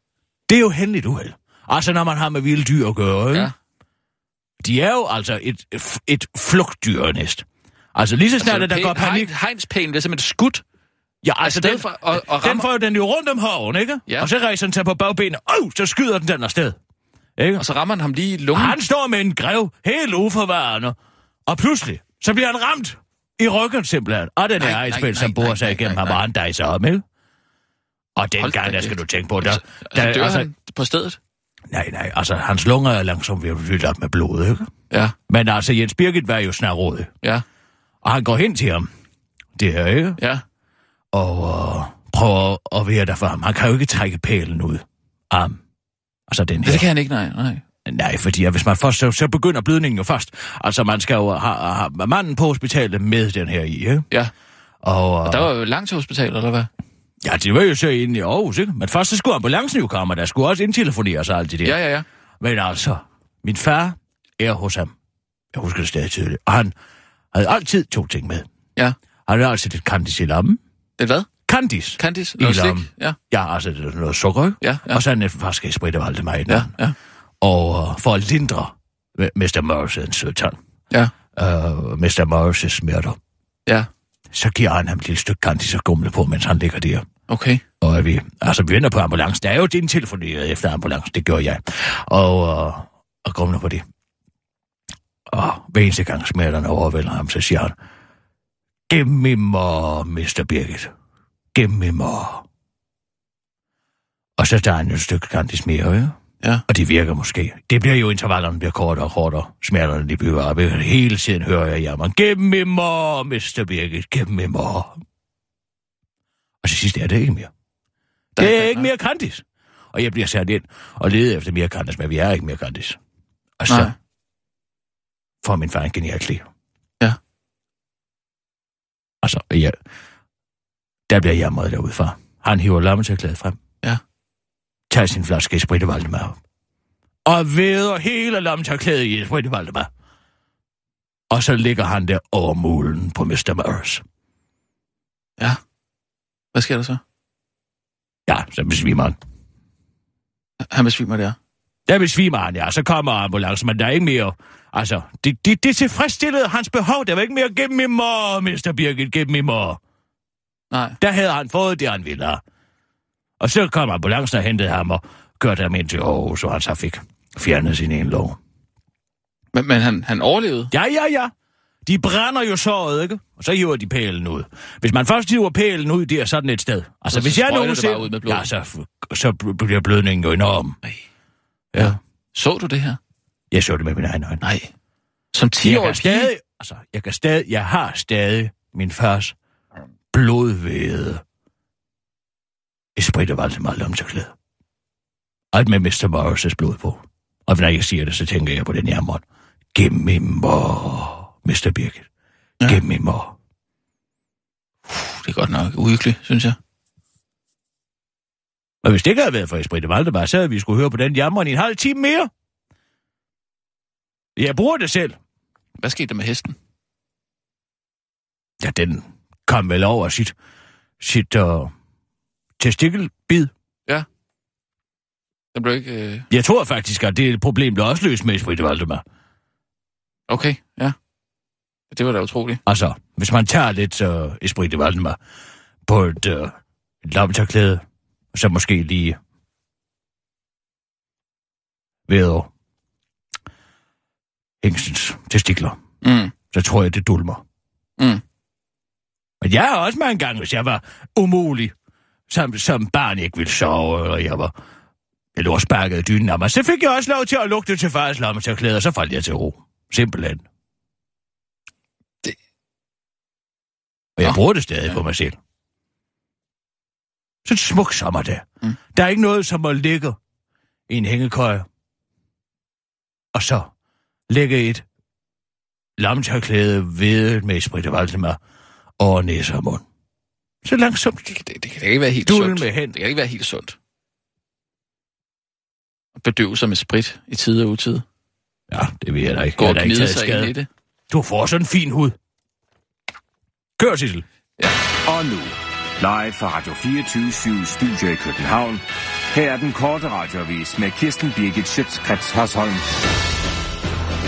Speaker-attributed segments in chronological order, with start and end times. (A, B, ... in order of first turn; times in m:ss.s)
0:00.5-0:03.5 A
0:04.6-0:09.3 A
0:08.4-0:10.6 B
0:11.2-0:16.8 A
0:11.4-0:12.7 B
0:17.4-0:17.6 A
0:17.6-0:18.8 B
0:18.5-0:21.0 A
0:21.5-0:27.0 A
0:24.6-0:26.2 B
0:28.2-0:30.5 A
0:28.4-0:31.2 B
0:31.7-0:34.7 A
0:34.9-0:35.1 B
0:35.3-0:37.1 A
0:38.0-0:38.9 A
0:39.6-0:40.2 A
0:40.2-0:40.4 B
0:41.1-0:45.6 A
0:46.3-0:46.9 A
0:46.6-0:47.6 B
0:47.8-0:54.1 A
0:54.8-0:55.5 A
0:55.2-0:56.7 B
0:57.2-1:01.8 A
1:01.6-1:02.0 B
1:02.4-1:04.9 A
1:05.5-1:06.7 A
1:07.3-1:08.5 A
1:09.3-1:10.6 A
1:11.0-1:11.3 B
1:11.5-1:16.7 A
1:12.0-1:13.2 B
1:14.6-1:15.0 B
1:16.5-1:17.0 B
1:17.4-1:20.6 A
1:21.4-1:23.2 A
1:24.3-1:27.0 A
1:27.3-1:27.6 B
1:27.8-1:33.8 A
1:35.3-1:37.7 A
1:38.9-1:40.9 A
1:41.5-1:42.4 A
1:44.4-1:46.2 A
1:46.7-1:55.0 A
1:56.6-1:57.5 A
1:58.4-1:58.9 B
1:58.4-2:03.0 A
2:03.6-2:03.9 A
2:03.7-2:03.9 B
2:05.4-2:06.4 A
2:09.2-2:09.8 A
2:11.1-2:13.6 A
2:14.9-2:16.4 A
2:17.2-2:19.9 A
2:21.3-2:24.0 A
2:26.5-2:27.0 B
2:28.3-2:29.2 A
2:30.6-2:31.4 B
2:31.9-2:39.8 A
2:40.7-2:41.0 B
2:41.0-2:42.4 A
2:43.4-2:48.4 A
2:49.5-2:50.7 B
2:50.7-2:51.3 A
2:51.8-3:00.8 A
2:57.1-2:58.4 B
3:01.8-3:03.0 B
3:03.5-3:04.4 A
3:04.4-3:04.7 B
3:05.3-3:06.3 B
3:05.6-3:09.3 A
3:10.1-3:11.2 A
3:13.0-3:14.3 A
3:15.5-3:19.2 A
3:19.7-3:22.0 A
3:22.6-3:23.3 A
3:24.9-3:26.6 B
3:28.8-3:32.3 A
3:34.4-3:35.2 A
3:35.8-3:36.6 B
3:38.6-3:40.3 A
3:41.0-3:41.7 A
3:42.6-3:43.5 A
3:45.5-3:46.3 B
3:46.3-3:49.0 A
3:50.3-3:50.9 B
3:51.9-3:52.6 B
3:52.6-3:55.2 A
3:55.8-3:59.2 A
4:02.1-4:02.5 A
4:04.6-4:05.8 A
4:06.0-4:06.3 B
4:06.5-4:07.4 A
4:09.4-4:11.7 A
4:12.3-4:14.5 A
4:15.4-4:20.4 A
4:24.2-4:25.4 A
4:27.4-4:30.2 A
4:30.9-4:31.6 A
4:33.3-4:33.7 A
4:34.3-4:34.8 A
4:36.0-4:38.4 A
4:39.0-4:39.8 A
4:40.6-4:41.3 A
4:41.3-4:43.8 B
4:42.2-4:43.0 A
4:46.2-4:48.0 B
4:48.7-4:50.5 A
4:49.6-4:50.7 B
4:51.1-4:52.2 A
4:53.8-4:54.2 A
4:55.0-5:02.8 C